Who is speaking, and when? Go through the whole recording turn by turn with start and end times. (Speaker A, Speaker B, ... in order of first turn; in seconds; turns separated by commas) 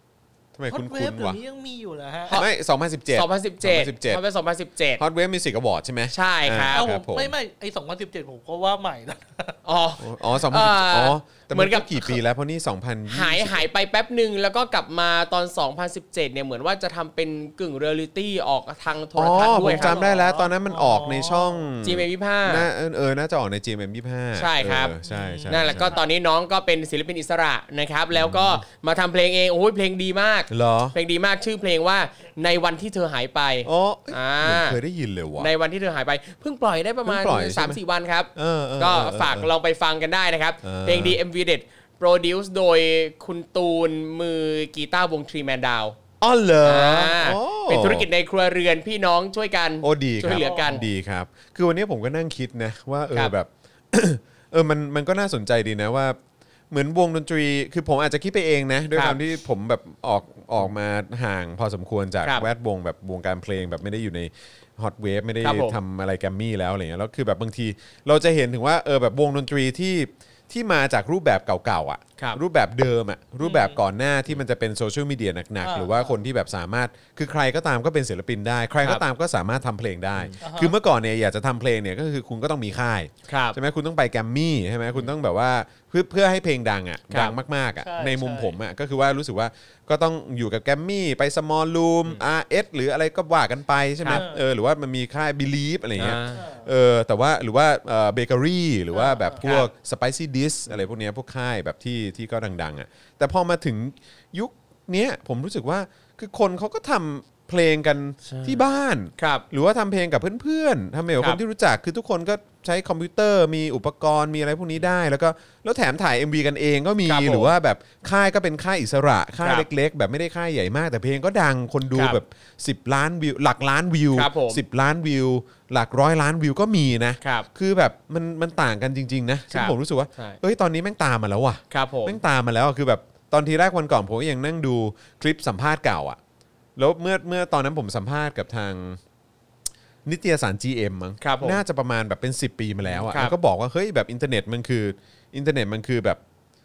Speaker A: 0.5-1.4, Speaker B: 0.7-2.4, Speaker A: 2.4-4.2, Speaker C: 3.1-5.0, Speaker A: 5.0-7.3, Speaker C: 6.1-6.9, Speaker B: 6.7-9.6, Speaker C: 9.7-12.2, Speaker A: 10.0-13.7, Speaker C: 13.1-20.0, Speaker A: 19.2-26.0, Speaker B: 19.6-21.7, Speaker C: 21.8-22.7, Speaker C: 24.4-34.8, Speaker B: 25.1-26.0, Speaker A: 28.1-28.6, Speaker A: 30.5-30.9, Speaker A: 33.6-35.5, Speaker C: 35.4-46.0, Speaker A: 37.1-37.8, Speaker A: 38.4-39.5, Speaker A: 40.6-41.2, Speaker A: 46.2-48.1, Speaker C: 46.6-50.8, Speaker A: 49.8-56.2, Speaker B: 50.3-50.9, Speaker A: 56.7-136.2, Speaker C: 58.9-59.2, Speaker C: 65.4-65.8, Speaker B: 73.4-73.8, Speaker B: 75.6-76.2, Speaker B: 80.4-80.8, Speaker C: 83.3-83.6, Speaker C: 87.1-87.4, Speaker B: 87.8-88.5, Speaker B: 94.1-94.4, Speaker C: 96.0-96.4, Speaker B: 96.3-96.7, Speaker B: 98.9-99.5, Speaker C: 99.4-99.7, Speaker C: 108.2-108.6, Speaker C: 109.2-109.4, Speaker C: 117.1-117.5, Speaker C: 121.9-122.2, Speaker C: 124.1-124.6, Speaker C: 127.2-127.5, Speaker C: 129.5-130.4, Speaker C: 131.7-132.2, Speaker A: 136.8-139.0, Speaker A: 140.1-146.2, Speaker C: 141.2-141.6, Speaker C: 142.9-143.3